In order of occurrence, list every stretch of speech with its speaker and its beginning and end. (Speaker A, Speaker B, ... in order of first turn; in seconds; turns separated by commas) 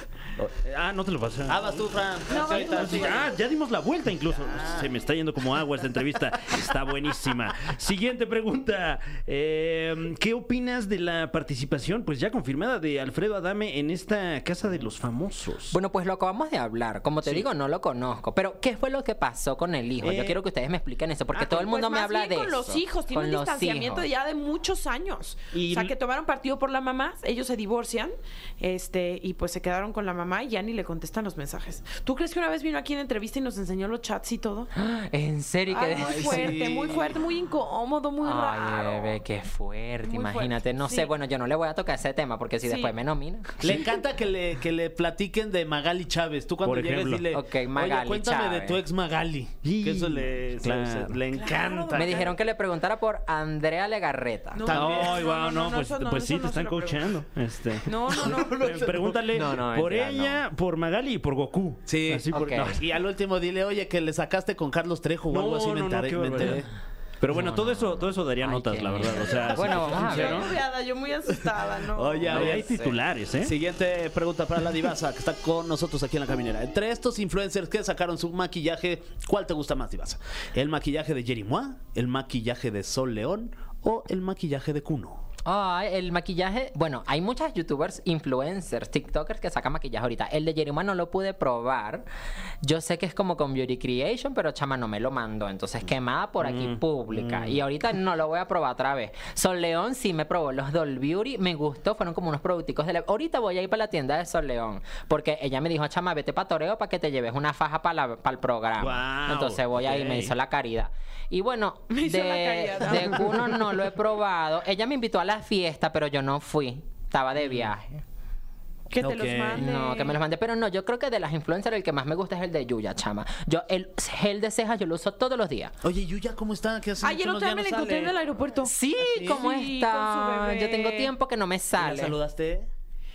Speaker A: 0.6-15.8, Speaker B: 1.5-3.3, Speaker C: 2.3-3.3, Speaker B: 4.4-4.9, Speaker D: 15.7-24.1, Speaker A: 20.0-20.4, Speaker C: 21.3-34.7, Speaker A: 25.5-25.9, Speaker D: 34.7-36.7, Speaker C: 35.7-39.2, Speaker B: 35.9-37.2, Speaker D: 38.2-43.8, Speaker C: 40.0-41.1, Speaker C: 42.6-42.9, Speaker B: 43.6-52.3, Speaker A: 46.6-47.3, Speaker D: 47.3-48.8, Speaker A: 49.6-51.6, Speaker C: 51.3-52.3, Speaker D: 51.9-54.6, Speaker C: 54.5-57.1, Speaker B: 54.7-55.2, Speaker A: 54.7-62.8, Speaker C: 57.8-58.7, Speaker B: 58.1-59.9, Speaker D: 59.3-60.4, Speaker B: 61.9-66.7, Speaker D: 62.3-62.8, Speaker A: 65.3-66.6, Speaker A: 67.2-70.5, Speaker D: 67.3-70.5, Speaker C: 69.5-72.6, Speaker B: 69.6-70.0, Speaker B: 71.9-72.8, Speaker A: 72.3-73.5, Speaker D: 72.3-72.9, Speaker B: 73.4-85.2, Speaker D: 85.4-92.0, Speaker D: 92.6-118.0, Speaker A: 96.4-97.5, Speaker A: 108.8-110.3, Speaker C: 111.9-113.7, Speaker C: 118.9-120.2, Speaker B: 119.0-119.6, Speaker D: 119.5-125.7, Speaker B: 125.8-128.2, Speaker C: 127.0-131.1, Speaker D: 128.6-132.1, Speaker B: 129.0-129.4, Speaker B: 131.8-132.7